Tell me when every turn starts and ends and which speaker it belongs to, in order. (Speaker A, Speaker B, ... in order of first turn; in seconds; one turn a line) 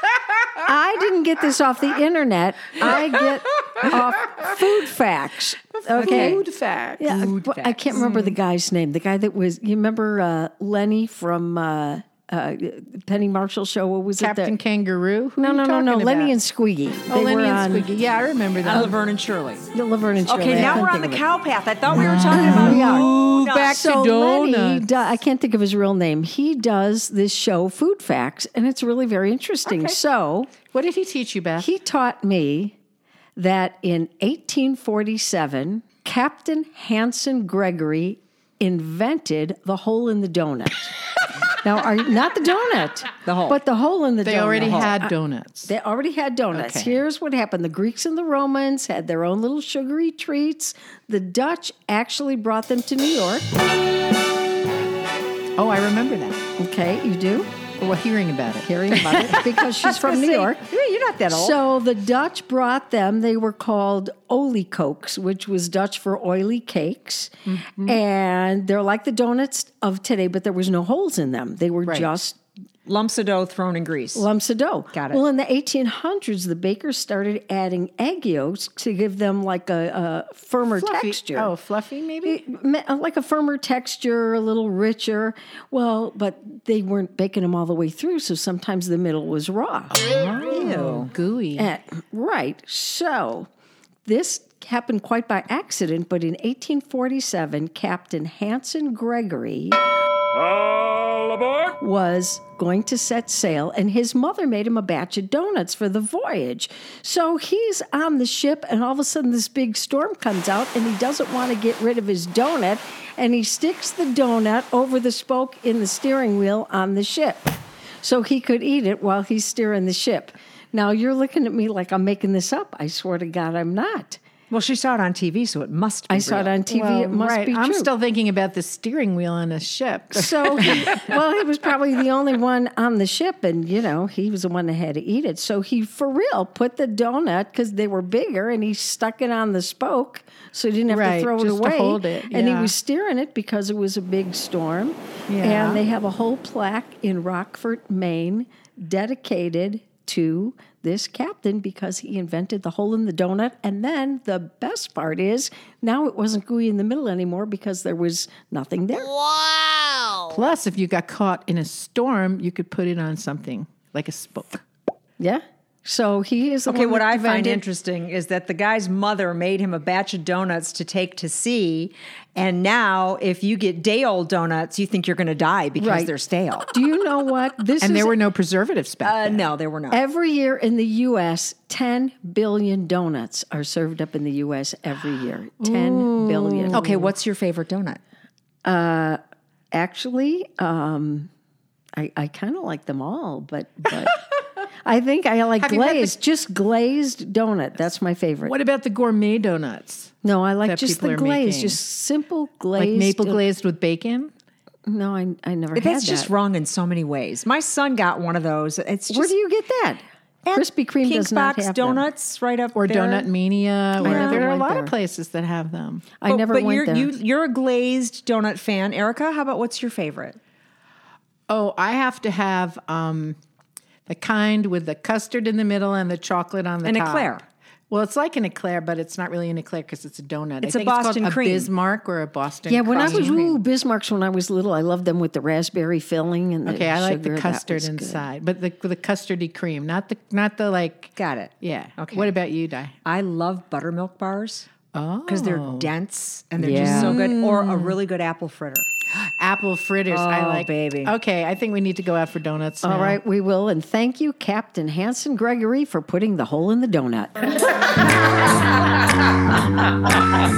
Speaker A: 0.6-6.4
Speaker B: 5.8-8.3
Speaker A: 7.0-14.6
Speaker B: 14.2-16.3
Speaker A: 15.4-17.9
Speaker B: 17.1-19.0
Speaker C: 18.6-19.7
Speaker A: 19.7-21.2
Speaker C: 20.3-23.8
Speaker A: 21.9-30.5
Speaker B: 22.0-24.9
Speaker B: 29.7-30.0
Speaker B: 30.7-31.7
Speaker A: 31.6-32.8
Speaker A: 33.4-40.9
Speaker A: 41.6-45.1
Speaker C: 43.3-43.6
Speaker B: 44.2-45.7
Speaker A: 45.7-53.5
Speaker B: 46.5-47.0
Speaker B: 55.6-56.4
Speaker A: 56.6-57.5
Speaker B: 57.8-58.7
Speaker A: 58.6-60.6
Speaker C: 59.8-61.6
Speaker A: 61.3-72.4
Speaker B: 67.5-68.0
Speaker C: 72.8-74.3
Speaker A: 74.2-81.5
Speaker C: 74.9-75.2
Speaker B: 80.8-82.4
Speaker A: 82.2-90.0
Speaker B: 90.1-91.7
Speaker C: 90.4-91.1
Speaker A: 91.6-93.5
Speaker A: 94.0-99.8
Speaker A: 101.8-124.2
Speaker C: 124.5-126.5
Speaker A: 126.1-127.9
Speaker B: 126.7-131.0
Speaker A: 130.2-159.1
Speaker B: 140.9-142.7
Speaker B: 145.3-145.8
Speaker B: 160.3-164.6
Speaker A: 165.2-167.6
Speaker C: 166.7-176.7
Speaker A: 175.8-176.1
Speaker A: 176.7-178.2
Speaker B: 177.8-179.5
Speaker C: 179.0-180.0
Speaker A: 179.9-187.1
Speaker B: 185.6-186.9
Speaker C: 186.7-188.0
Speaker A: 188.7-189.2
Speaker A: 189.7-191.3
Speaker A: 191.9-194.2
Speaker A: 194.8-198.5
Speaker B: 195.6-196.2
Speaker B: 198.4-201.8
Speaker A: 200.2-203.4
Speaker B: 202.8-204.3
Speaker A: 204.9-206.3
Speaker C: 205.8-209.3
Speaker A: 209.1-212.1
Speaker C: 210.4-213.3
Speaker B: 212.8-216.1
Speaker A: 214.0-214.9
Speaker C: 214.1-214.4
Speaker A: 216.2-217.1
Speaker C: 216.3-220.4
Speaker B: 221.5-223.4
Speaker B: 224.1-227.4
Speaker C: 226.8-227.4
Speaker B: 227.9-233.6
Speaker C: 230.6-231.7
Speaker A: 232.7-238.3
Speaker C: 233.0-233.4
Speaker B: 236.7-242.9
Speaker C: 241.2-242.3
Speaker C: 243.1-244.7
Speaker B: 244.9-245.9
Speaker C: 245.3-248.9
Speaker A: 246.6-247.2
Speaker B: 246.7-248.0
Speaker B: 249.4-253.2
Speaker C: 250.1-251.1
Speaker A: 252.8-257.3